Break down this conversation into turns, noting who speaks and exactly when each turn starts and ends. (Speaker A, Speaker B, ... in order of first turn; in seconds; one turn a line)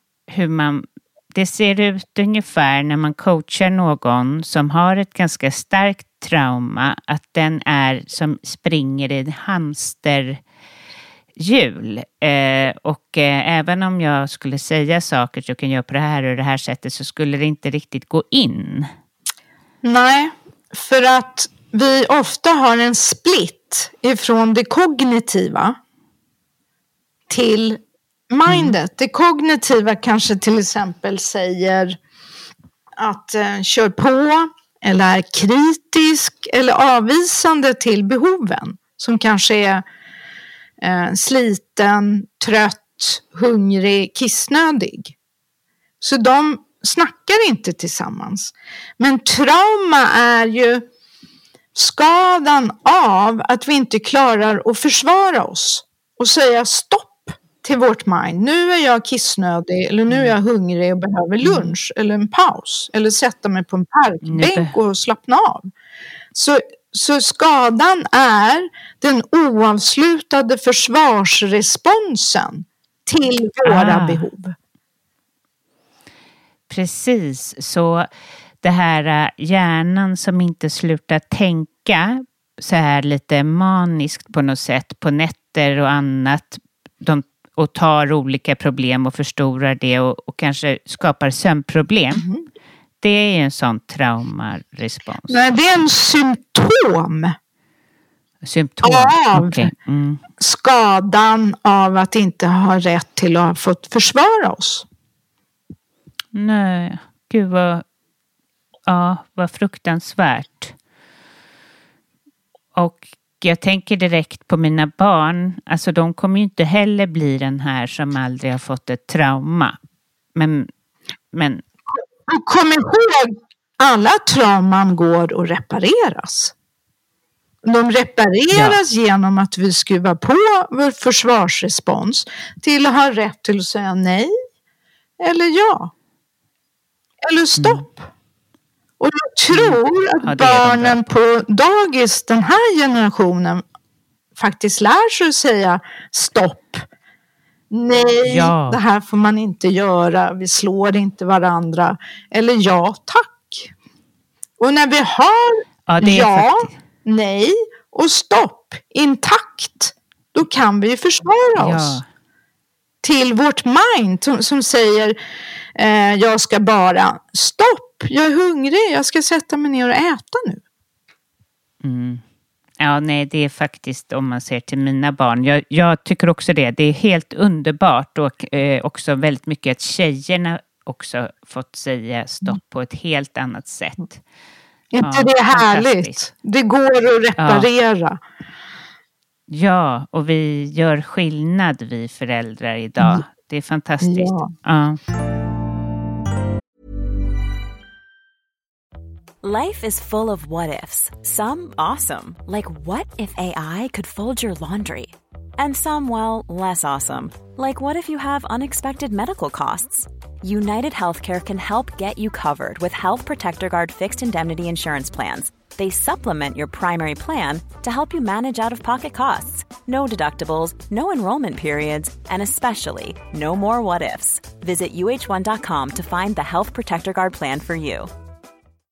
Speaker A: 0.3-10.4
Speaker A: 11.4-18.9
Speaker B: 19.8-25.8
Speaker B: 27.3-32.0
Speaker A: 28.5-28.7
Speaker B: 33.0-39.8
Speaker B: 40.8-45.1
Speaker B: 46.0-50.9
Speaker B: 51.7-65.7
Speaker A: 60.1-60.3
Speaker A: 61.4-61.8
Speaker A: 64.2-64.7
Speaker B: 66.3-74.5
Speaker A: 73.6-74.3
Speaker A: 76.7-78.1
Speaker A: 78.6-92.2
Speaker B: 92.1-92.5
Speaker A: 93.0-95.4
Speaker B: 95.3-97.3
Speaker A: 98.4-100.2
Speaker B: 98.8-99.7
Speaker B: 100.4-104.8
Speaker A: 106.3-107.8
Speaker A: 108.9-110.7
Speaker A: 112.8-119.8
Speaker A: 120.3-120.7
Speaker A: 121.3-121.6
Speaker B: 121.9-126.5
Speaker B: 127.6-134.3
Speaker A: 128.5-128.8
Speaker B: 135.2-135.9
Speaker B: 137.2-138.1
Speaker A: 137.6-137.8
Speaker B: 139.0-143.6
Speaker A: 139.5-141.1
Speaker B: 144.3-146.8
Speaker B: 147.7-153.7
Speaker A: 148.2-148.8
Speaker B: 154.6-162.0
Speaker A: 155.9-156.8
Speaker A: 161.6-162.0
Speaker B: 163.0-165.2
Speaker B: 165.7-170.6
Speaker A: 171.8-172.2
Speaker A: 172.8-184.2
Speaker B: 184.9-188.2
Speaker A: 185.0-186.2
Speaker A: 187.4-187.7
Speaker A: 189.5-195.0
Speaker B: 194.0-194.5
Speaker C: 199.4-228.1